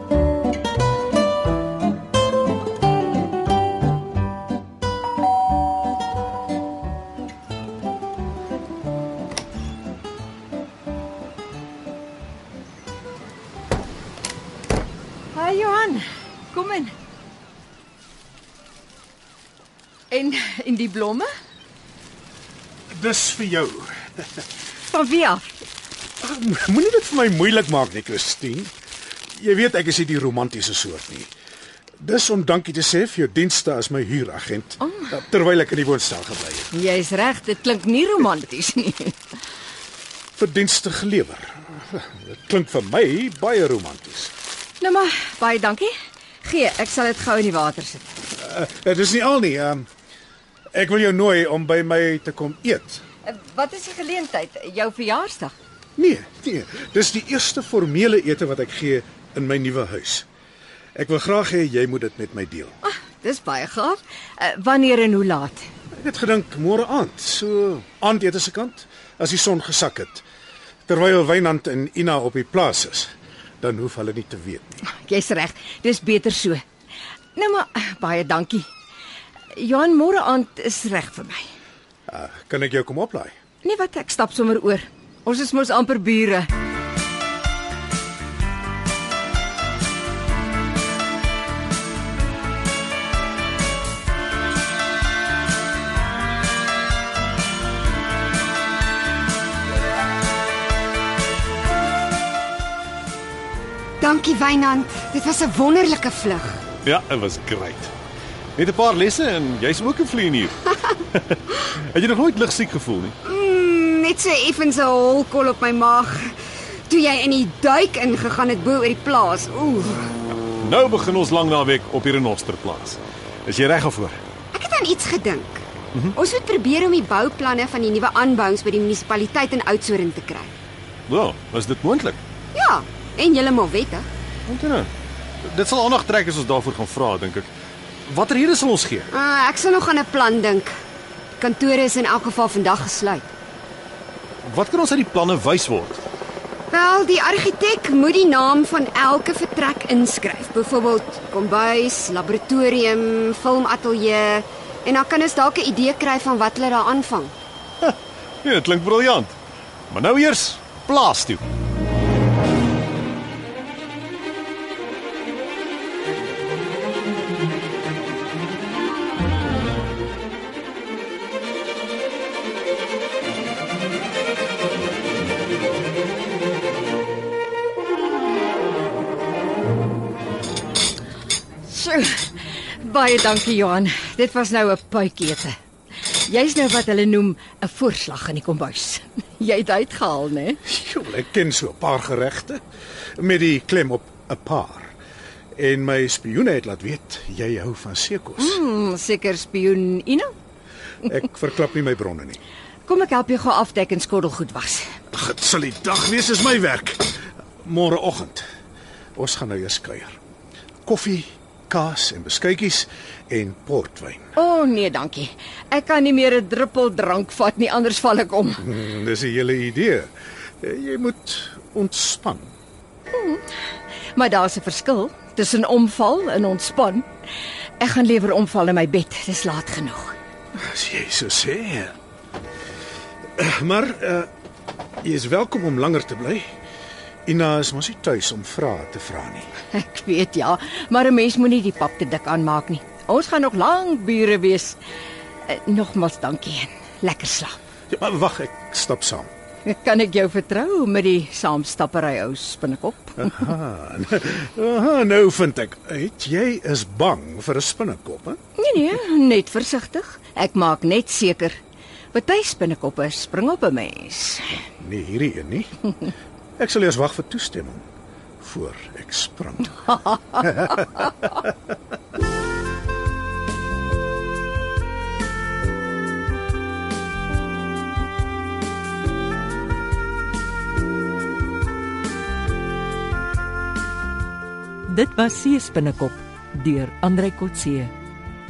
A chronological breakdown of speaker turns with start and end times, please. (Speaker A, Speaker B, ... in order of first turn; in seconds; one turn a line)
Speaker A: 15.3-16.9
Speaker A: 20.1-21.3
Speaker B: 22.9-23.9
Speaker A: 24.9-25.5
Speaker B: 26.2-28.7
Speaker B: 29.4-31.3
Speaker B: 32.0-36.7
Speaker A: 36.7-39.2
Speaker B: 40.4-44.3
Speaker A: 44.8-45.9
Speaker A: 46.4-48.1
Speaker B: 48.4-49.9
Speaker B: 50.7-53.0
Speaker A: 53.2-55.5
Speaker B: 56.0-60.3
Speaker B: 61.0-62.8
Speaker A: 62.8-65.7
Speaker B: 65.9-70.2
Speaker B: 70.9-74.8
Speaker A: 74.9-76.6
Speaker A: 77.3-78.7
Speaker A: 79.5-81.5
Speaker B: 82.1-83.3
Speaker A: 83.6-86.5
Speaker C: 104.0-106.6
Speaker D: 106.8-107.9
Speaker D: 108.6-110.5
Speaker D: 111.1-113.2
Speaker C: 113.3-116.3
Speaker C: 116.9-120.1
Speaker D: 120.6-124.2
Speaker C: 124.5-125.6
Speaker C: 126.2-130.5
Speaker D: 131.1-132.2
Speaker C: 132.5-134.1
Speaker D: 134.5-134.9
Speaker D: 135.4-137.5
Speaker D: 138.1-139.1
Speaker C: 139.1-140.7
Speaker C: 141.4-143.3
Speaker D: 144.4-146.0
Speaker C: 146.7-157.3
Speaker D: 157.8-159.4
Speaker D: 159.9-161.4
Speaker A: 181.7-182.3
Speaker A: 182.8-185.5
Speaker A: 186.1-190.6
Speaker B: 190.7-192.6
Speaker B: 193.2-194.9
Speaker B: 195.6-198.6
Speaker A: 198.4-200.3
Speaker B: 201.1-202.4
Speaker A: 202.9-204.9
Speaker B: 205.1-208.4
Speaker B: 209.2-210.2
Speaker B: 210.9-214.3
Speaker A: 214.4-218.6
Speaker B: 218.6-220.1
Speaker B: 220.6-222.5
Speaker A: 223.1-223.4
Speaker A: 224.2-227.1
Speaker A: 227.8-230.2
Speaker B: 230.6-231.9
Speaker B: 233.4-234.3
Speaker B: 235.0-236.5
Speaker B: 237.3-239.5
Speaker A: 239.7-244.8
Speaker A: 245.5-247.6
Speaker B: 247.9-249.3
Speaker A: 249.7-253.5
Speaker B: 253.2-258.4
Speaker A: 258.6-261.6
Speaker A: 262.1-264.6
Speaker B: 264.8-265.8
Speaker B: 266.6-267.8
Speaker B: 268.4-271.3
Speaker E: 284.9-287.9